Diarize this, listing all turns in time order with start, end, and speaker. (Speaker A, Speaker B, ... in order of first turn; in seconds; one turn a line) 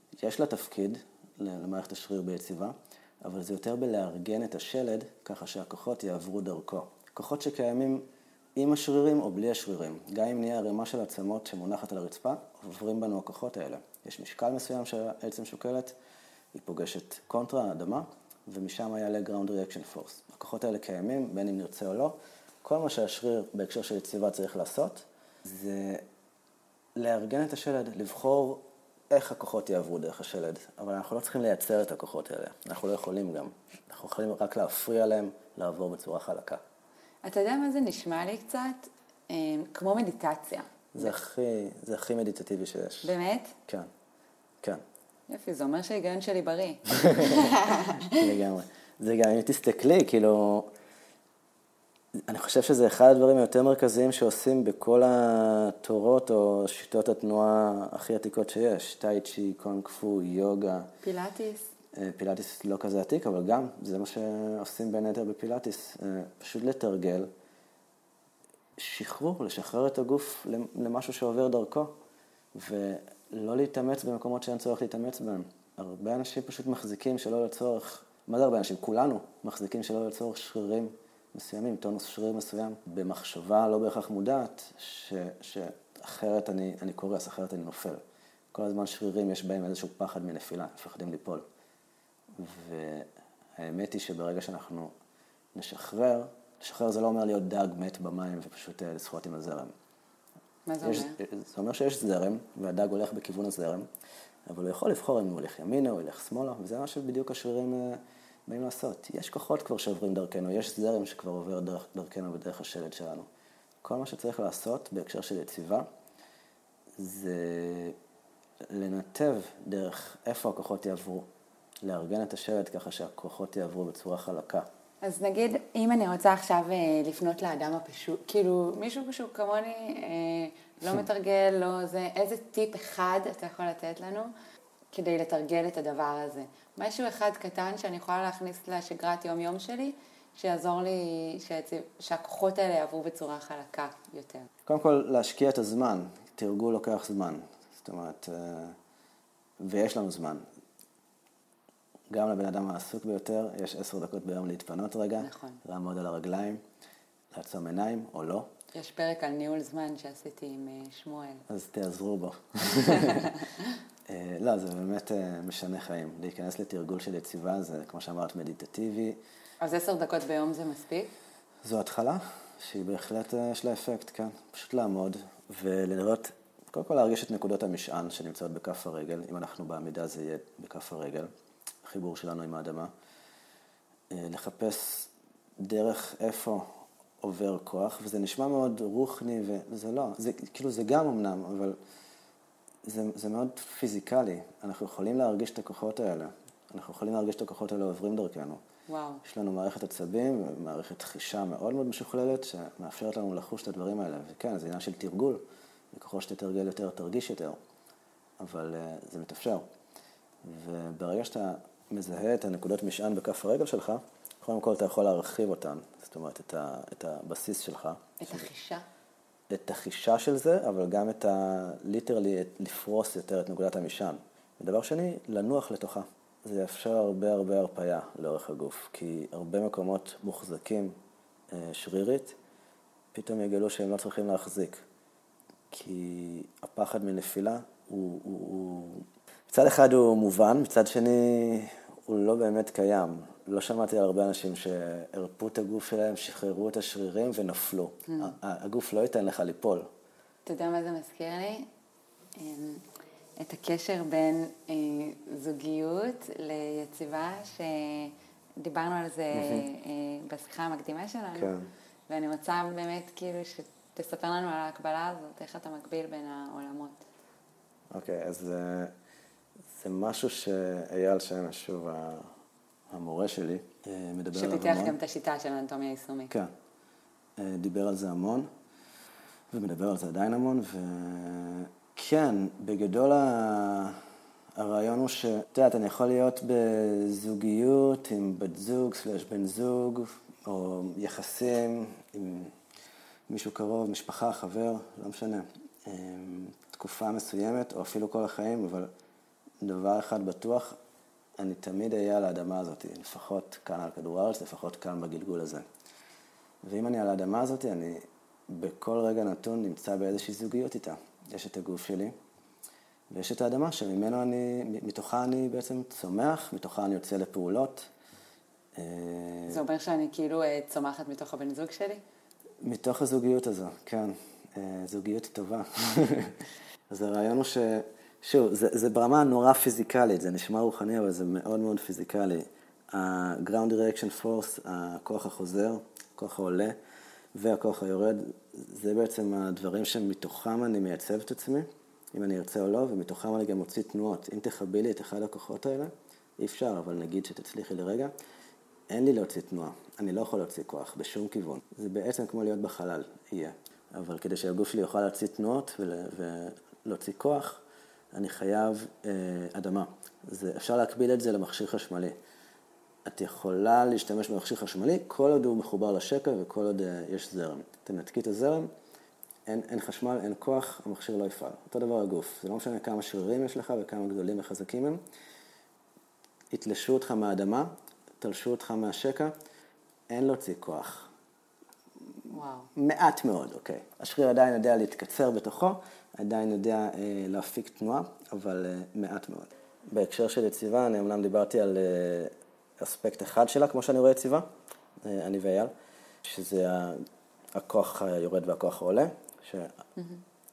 Speaker A: 0.2-8.0
Speaker A: 8.6-15.9
Speaker A: 16.5-26.0
Speaker A: 26.9-36.6
Speaker B: 37.2-41.1
Speaker A: 40.9-43.1
Speaker B: 43.0-43.5
Speaker B: 45.3-48.2
Speaker A: 46.9-47.5
Speaker A: 48.1-50.7
Speaker A: 52.2-60.9
Speaker B: 61.0-61.7
Speaker A: 61.9-67.3
Speaker A: 68.8-71.9
Speaker A: 72.5-88.0
Speaker A: 88.5-91.4
Speaker A: 92.4-94.9
Speaker A: 95.5-99.7
Speaker B: 100.7-101.2
Speaker A: 100.8-103.9
Speaker A: 104.5-113.3
Speaker A: 113.8-115.9
Speaker A: 117.0-118.0
Speaker A: 118.7-121.3
Speaker A: 121.8-124.7
Speaker B: 125.0-134.3
Speaker B: 134.9-144.5
Speaker A: 144.7-148.8
Speaker A: 149.6-150.4
Speaker A: 152.1-156.6
Speaker B: 155.2-155.6
Speaker A: 157.3-158.5
Speaker B: 158.7-161.4
Speaker A: 161.5-163.4
Speaker B: 162.8-163.7
Speaker A: 164.1-169.2
Speaker B: 169.6-171.1
Speaker A: 171.6-181.3
Speaker A: 181.8-182.9
Speaker A: 184.1-186.7
Speaker A: 187.2-191.8
Speaker A: 192.8-198.6
Speaker B: 198.9-199.2
Speaker A: 199.2-205.4
Speaker A: 205.9-207.6
Speaker A: 208.4-209.6
Speaker A: 210.4-218.4
Speaker B: 218.2-218.8
Speaker A: 219.5-230.9
Speaker A: 231.5-232.3
Speaker A: 233.1-234.8
Speaker A: 235.7-249.9
Speaker B: 248.1-248.3
Speaker B: 250.4-251.7
Speaker B: 252.3-252.8
Speaker B: 253.4-261.5
Speaker A: 259.3-259.6
Speaker A: 261.3-261.7
Speaker B: 262.1-267.0
Speaker A: 267.9-268.9
Speaker A: 269.7-272.3
Speaker A: 272.9-275.0
Speaker B: 274.3-276.3
Speaker A: 277.4-278.5
Speaker A: 279.5-284.0
Speaker A: 284.6-292.5
Speaker A: 293.3-298.9
Speaker A: 299.6-300.8
Speaker A: 301.4-305.6
Speaker A: 306.6-312.1
Speaker A: 313.1-317.9
Speaker A: 318.8-319.6
Speaker B: 319.5-322.0
Speaker A: 322.6-326.4
Speaker A: 326.9-336.8
Speaker A: 337.3-348.1
Speaker A: 348.9-357.6
Speaker A: 358.1-362.1
Speaker A: 363.1-368.7
Speaker A: 369.5-375.0
Speaker A: 376.5-379.3
Speaker A: 380.1-381.1
Speaker B: 382.3-382.7
Speaker A: 382.7-394.5
Speaker A: 395.0-395.7
Speaker A: 396.2-399.8